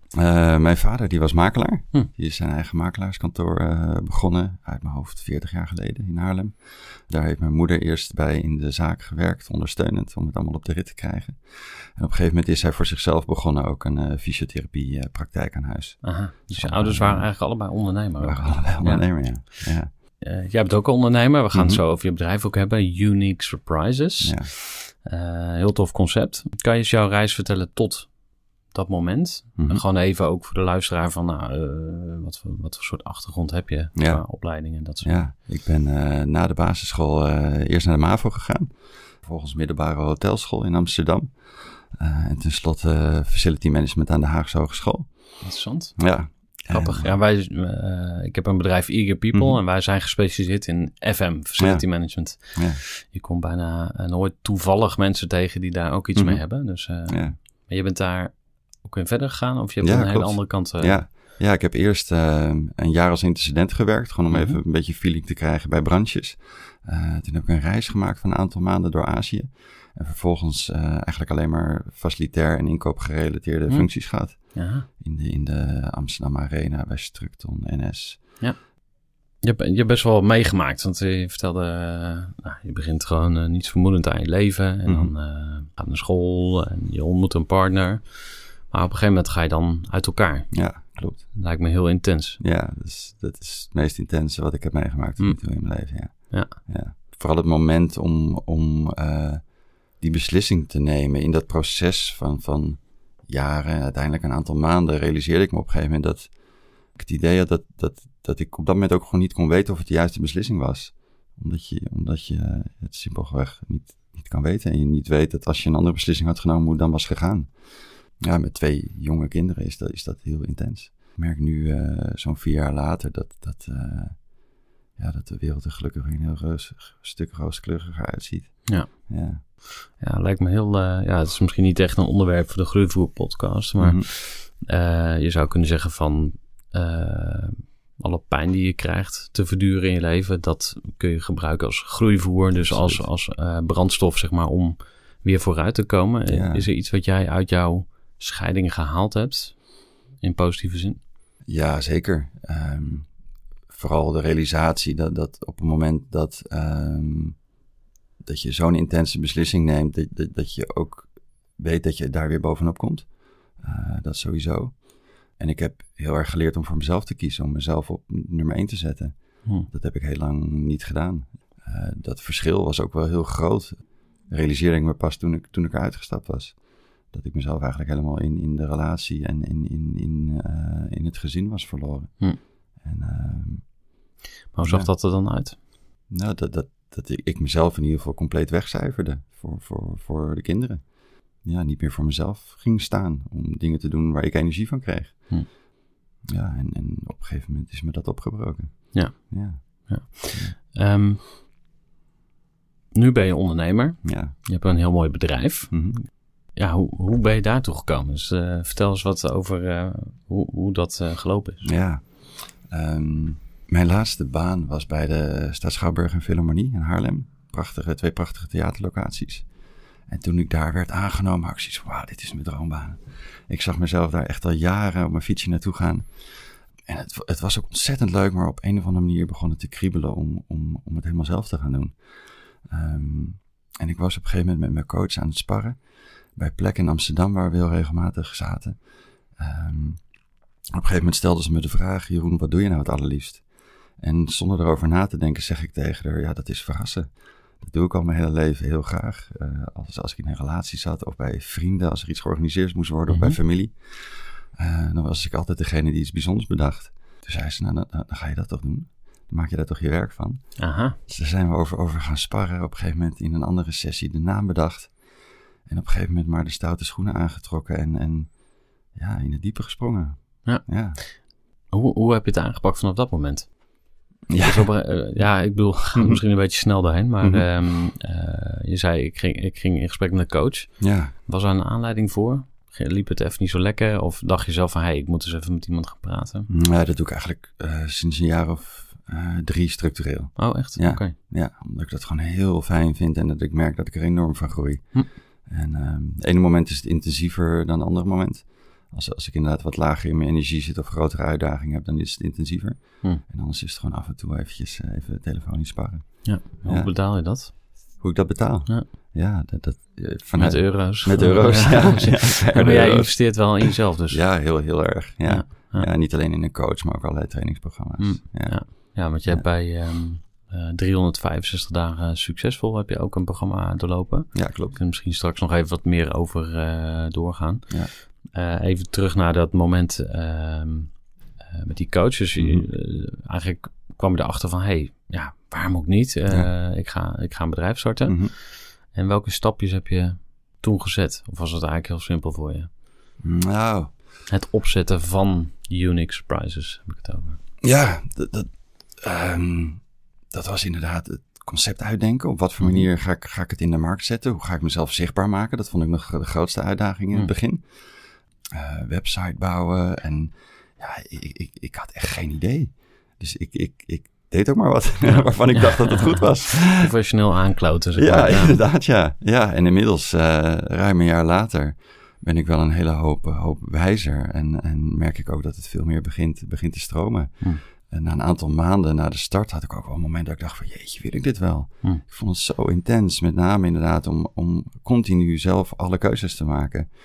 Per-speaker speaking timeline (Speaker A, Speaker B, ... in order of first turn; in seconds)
Speaker A: 0.1-6.5, 7.1-17.3, 18.2-19.9, 21.5-21.8, 24.2-24.5, 34.0-34.2, 35.0-38.7, 39.2-41.3, 41.9-45.1, 46.0-47.2, 49.3-49.6, 51.6-51.9, 52.5-52.8, 56.2-56.4, 57.1-57.4, 59.8-78.2, 84.9-85.1, 90.5-91.2, 92.4-99.4, 100.0-106.3, 107.0-117.5, 118.2-124.2, 125.0-129.4, 133.8-134.1, 142.6-143.0, 146.3-146.7, 151.5-153.1, 153.7-157.4, 158.2-163.1, 163.6-164.8, 165.4-169.1, 169.7-173.8, 174.3-176.6, 177.1-182.2, 182.8-183.6, 184.6-184.9, 186.1-190.8, 191.4-195.2, 196.3-199.6, 204.0-204.3, 205.7-206.0, 211.6-219.5, 220.1-231.9, 232.7-235.8, 236.4-238.8, 239.4-240.0, 240.7-243.4, 244.0-247.1, 247.6-260.5, 261.1-264.9, 265.7-268.3, 268.9-271.0, 274.3-274.7, 280.8-281.1, 286.5-306.9, 308.0-318.6, 324.3-324.8, 332.4-332.7, 338.1-338.3, 343.2-343.9, 347.6-357.9, 358.5-366.9, 367.9-386.9
Speaker B: 16.0-19.1, 20.2-28.1, 28.7-35.2, 45.4-46.0, 46.7-58.3, 58.8-61.0, 64.3-64.6, 74.5-74.9, 79.4-88.0, 88.7-90.5, 91.3-92.4, 96.2-96.5, 130.0-149.6, 150.2-151.0, 184.5-185.6, 198.9-201.2, 202.9-205.9, 206.6-211.7, 253.1-253.4, 260.6-261.0, 270.4-271.1, 271.7-273.5, 274.4-280.7, 281.3-286.5, 290.4-291.1, 306.2-307.5, 310.4-314.2, 315.3-315.9, 318.0-327.7, 328.3-330.9, 331.5-338.2, 338.9-342.7, 344.3-347.4, 352.6-352.9, 365.1-368.6